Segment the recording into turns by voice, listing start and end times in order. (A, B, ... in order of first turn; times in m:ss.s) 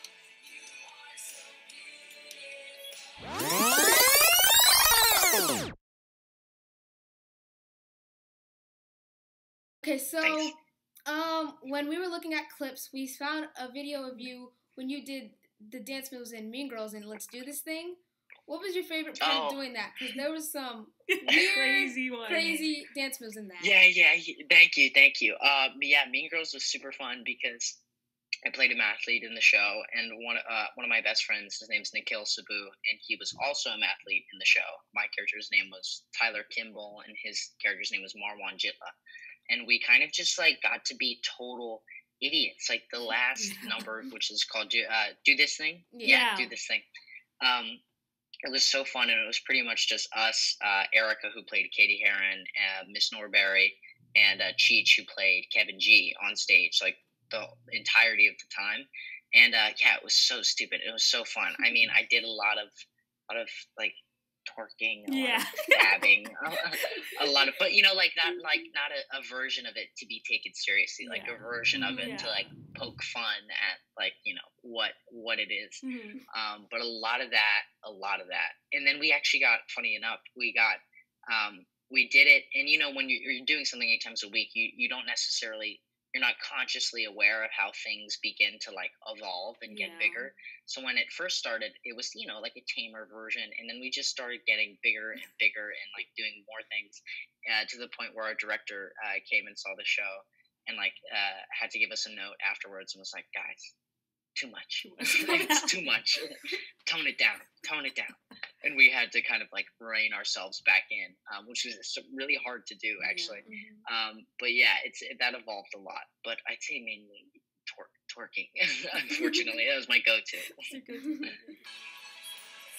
0:00.4-0:03.7 A
0:09.8-0:10.5 B
0:10.2-0:10.5 C
0:11.0-0:23.8 B
0:19.2-0:19.6 C
0:21.1-0:22.6 A
0:23.6-0:27.8 C
0:28.4-0:38.9 C
0:39.5-0:46.8 C
0:43.4-0:43.8 A
0:45.9-0:46.2 B
0:46.0-0:46.5 A
0:47.4-0:47.8 C
0:48.4-1:02.7 C
1:03.3-1:04.0 C
1:04.5-1:43.7 C
1:05.1-1:05.7 A
1:06.7-1:07.3 B
1:11.1-1:12.4 A
1:15.8-1:16.1 A
1:29.6-1:30.3 A
1:44.4-2:00.6 C
1:44.8-1:45.8 A
1:53.0-1:53.4 A
1:53.4-1:53.8 B
2:00.5-2:01.6 A
2:01.0-2:01.2 B